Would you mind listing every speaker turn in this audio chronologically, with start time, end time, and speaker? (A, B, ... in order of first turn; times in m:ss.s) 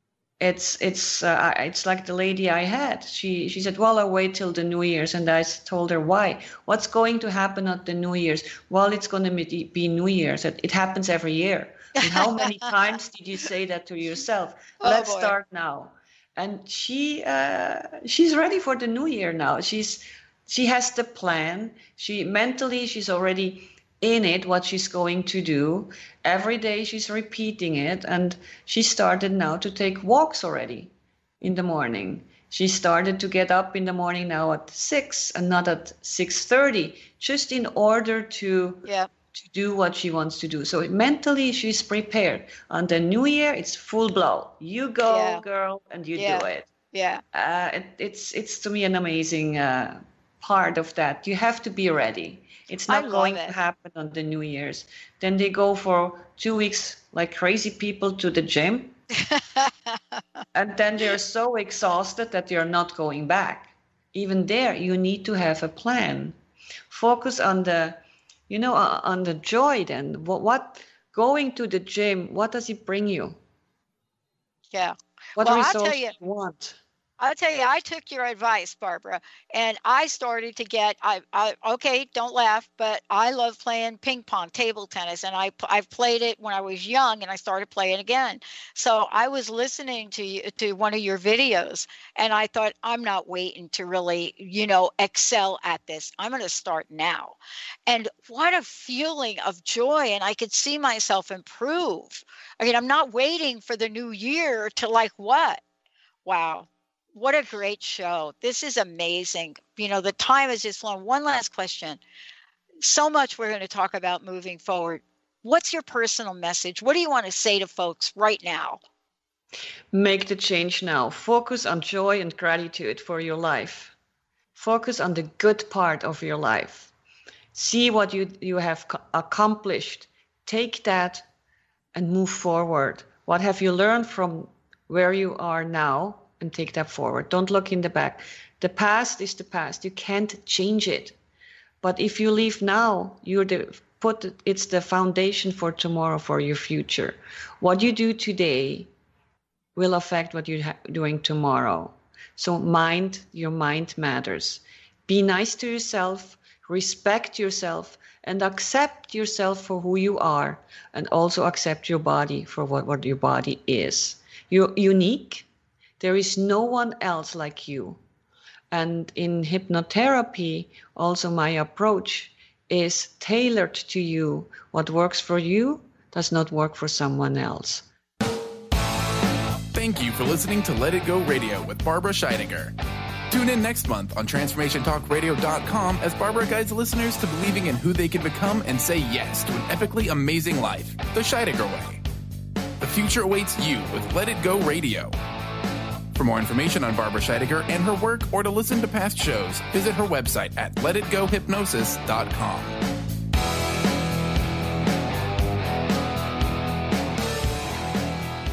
0:00.4-0:46.7 A
0:12.0-0:12.5 B
0:14.8-0:15.3 B
0:45.0-0:45.4 B
0:46.1-0:47.2 B
0:47.3-0:59.0 A
0:52.9-0:53.5 B
0:59.2-1:00.4 B
1:00.5-1:06.3 A
1:06.9-1:13.4 A
1:14.7-1:16.1 B
1:15.4-1:16.8 A
1:17.2-1:45.6 B
1:46.2-1:52.0 B
1:52.8-1:58.8 B
1:59.9-2:03.9 A
2:04.6-2:06.9 A
2:07.5-2:11.3 A
2:11.9-2:21.2 A
2:21.8-2:28.9 A
2:29.8-2:45.4 A
2:46.0-2:48.0 A
2:48.7-2:57.9 A
2:59.7-3:02.7 C
3:03.3-3:12.0 C
3:12.8-3:15.2 C
3:16.1-3:22.8 C